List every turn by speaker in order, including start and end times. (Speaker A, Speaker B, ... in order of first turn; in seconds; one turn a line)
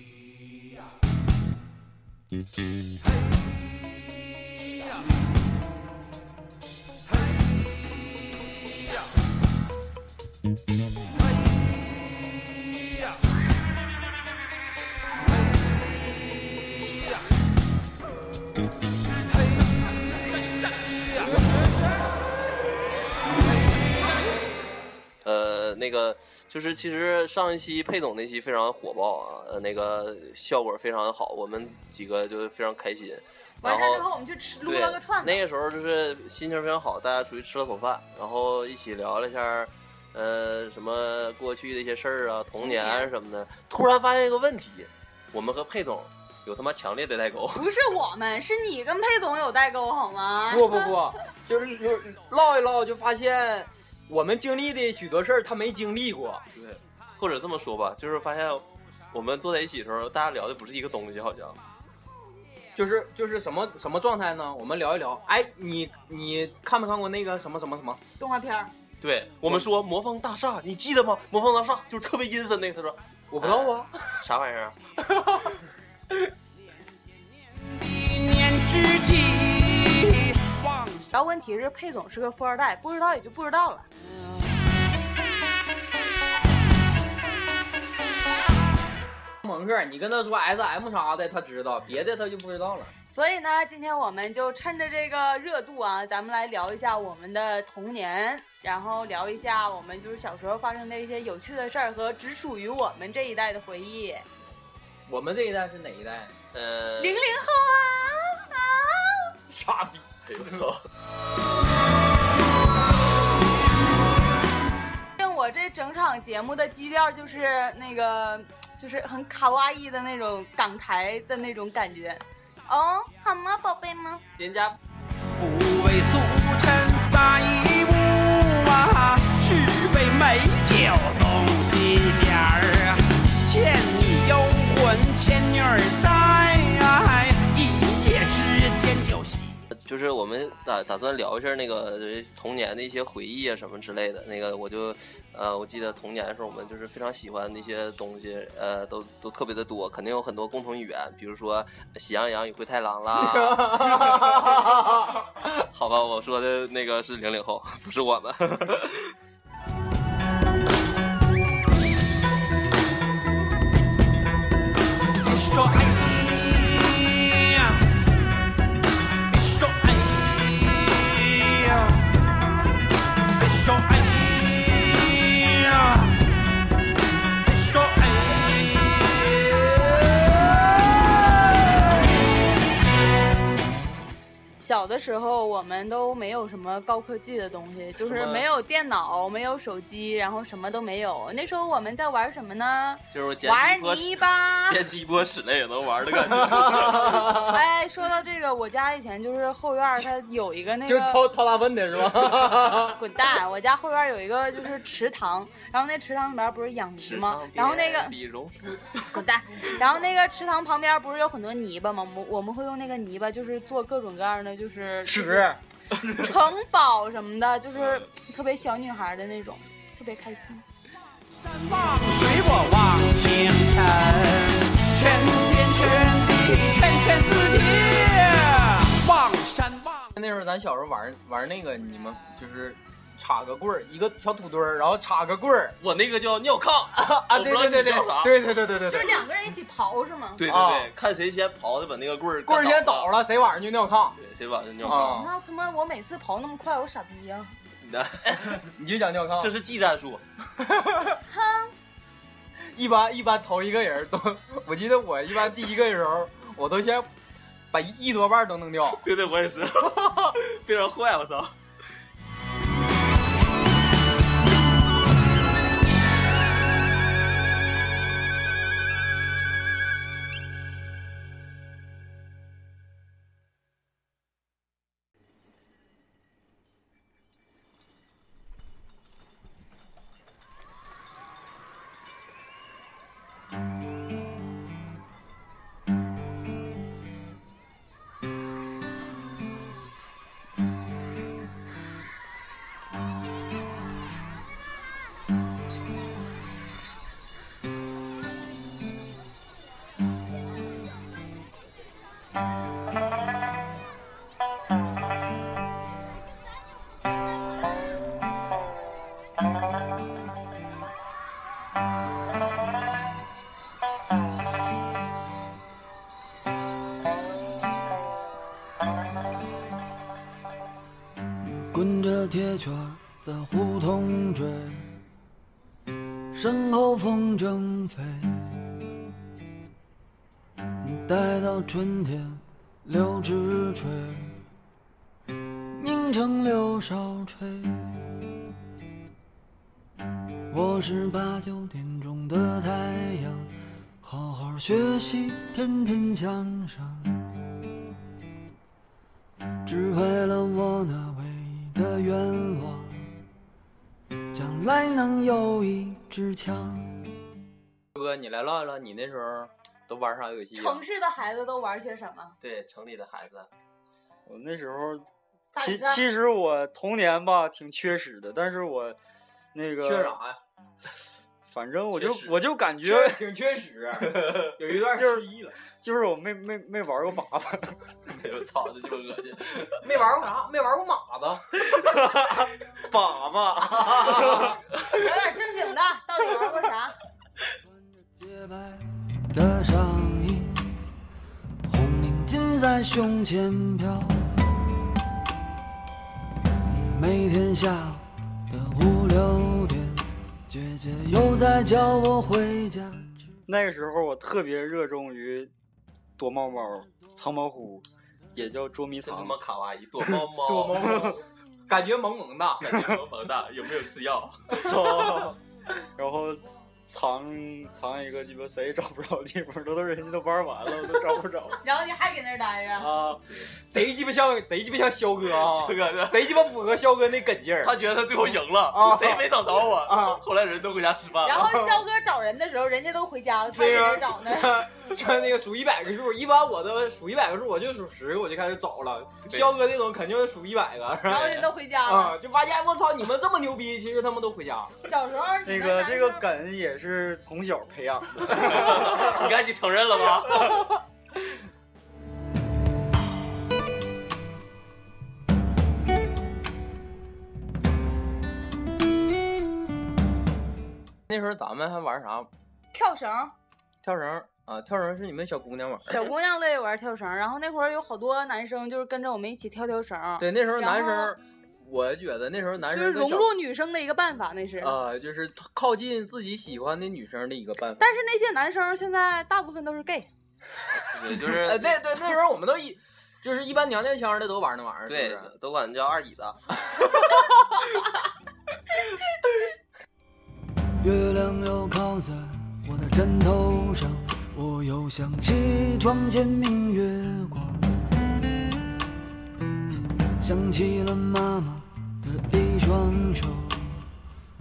Speaker A: 25.2-34.0
Speaker B: 33.6-35.4
Speaker A: 34.6-47.7
Speaker B: 42.6-43.1
Speaker B: 47.5-51.0
Speaker C: 50.5-56.4
Speaker A: 56.5-61.6
Speaker C: 62.7-68.0
Speaker B: 68.2-68.7
Speaker A: 69.0-74.8
Speaker C: 73.3-73.9
Speaker D: 77.7-81.1
Speaker B: 81.1-83.8
Speaker C: 89.4-92.9
Speaker B: 93.1-104.2
Speaker C: 105.1-106.3
Speaker A: 106.5-107.2
Speaker B: 107.0-109.3
Speaker C: 109.5-110.0
Speaker A: 110.2-110.8
Speaker B: 115.2-124.2
Speaker A: 124.4-124.8
Speaker D: 125.4-139.5
Speaker A: 139.7-154.6
Speaker C: 153.1-155.2
Speaker A: 155.7-159.1
Speaker D: 165.2-167.8
Speaker D: 169.3-172.1
Speaker D: 173.3-176.2
Speaker D: 177.4-181.6
Speaker B: 184.6-194.9
Speaker C: 188.0-188.4
Speaker A: 193.1-197.2
Speaker C: 196.3-197.6
Speaker B: 197.2-201.3
Speaker C: 200.8-203.0
Speaker B: 202.8-208.1
Speaker A: 207.0-209.2
Speaker B: 209.0-215.5
Speaker C: 215.0-215.6
Speaker B: 216.0-220.6
Speaker A: 217.7-218.1
Speaker D: 221.4-230.1
Speaker C: 230.1-235.8
Speaker A: 235.8-238.4
Speaker C: 237.0-239.2
Speaker B: 238.8-240.4
Speaker A: 240.4-243.1
Speaker C: 240.4-240.9
Speaker C: 242.4-244.2
Speaker A: 244.2-245.2
Speaker C: 244.8-245.3
Speaker B: 244.8-247.6
Speaker A: 247.8-248.7
Speaker C: 248.6-249.5
Speaker A: 249.4-250.2
Speaker C: 250.6-251.2
Speaker B: 251.3-251.7
Speaker C: 252.6-257.1
Speaker C: 257.7-259.0
Speaker A: 259.0-261.5
Speaker E: 321.4-324.9
Speaker E: 326.3-328.6
Speaker E: 330.8-334.4
Speaker E: 335.7-338.2
Speaker E: 340.5-347.3
Speaker E: 349.6-353.1
Speaker E: 354.3-357.0
Speaker C: 357.9-360.8
Speaker B: 360.5-362.3
Speaker A: 362.4-363.5
Speaker F: 364.2-365.0
Speaker B: 365.5-366.1
Speaker F: 365.6-369.0
Speaker F: 369.5-370.2
Speaker C: 369.8-370.4
Speaker F: 371.5-373.2
Speaker A: 371.9-372.4
Speaker C: 372.8-375.6
Speaker F: 374.1-377.8
Speaker A: 378.1-379.8
Speaker C: 379.8-381.4
Speaker F: 381.6-384.6
Speaker B: 384.8-386.9
Speaker E: 388.1-390.8
Speaker E: 391.6-394.3
Speaker E: 396.6-403.3
Speaker F: 403.5-405.5
Speaker F: 406.2-409.4
Speaker A: 409.0-411.1
Speaker C: 410.4-412.6
Speaker F: 410.8-411.1
Speaker A: 412.6-414.5
Speaker F: 414.5-415.4
Speaker F: 415.9-421.6
Speaker B: 421.6-423.0
Speaker F: 422.8-423.2
Speaker C: 423.7-427.7
Speaker A: 425.3-426.4
Speaker A: 427.6-431.6
Speaker C: 428.7-429.3
Speaker C: 429.8-430.2
Speaker B: 431.2-434.7
Speaker C: 433.5-444.7
Speaker A: 439.3-439.5
Speaker B: 441.0-442.2
Speaker B: 444.8-446.2
Speaker F: 445.4-449.3
Speaker A: 448.3-450.7
Speaker C: 461.1-462.3
Speaker B: 462.7-463.3
Speaker C: 463.8-466.1
Speaker B: 465.8-471.1
Speaker C: 470.2-473.3
Speaker B: 472.6-474.8
Speaker C: 474.6-477.9
Speaker B: 477.8-480.1
Speaker A: 480.9-481.7
Speaker C: 481.1-485.3
Speaker A: 484.9-486.6
Speaker E: 490.8-497.8
Speaker E: 500.2-503.9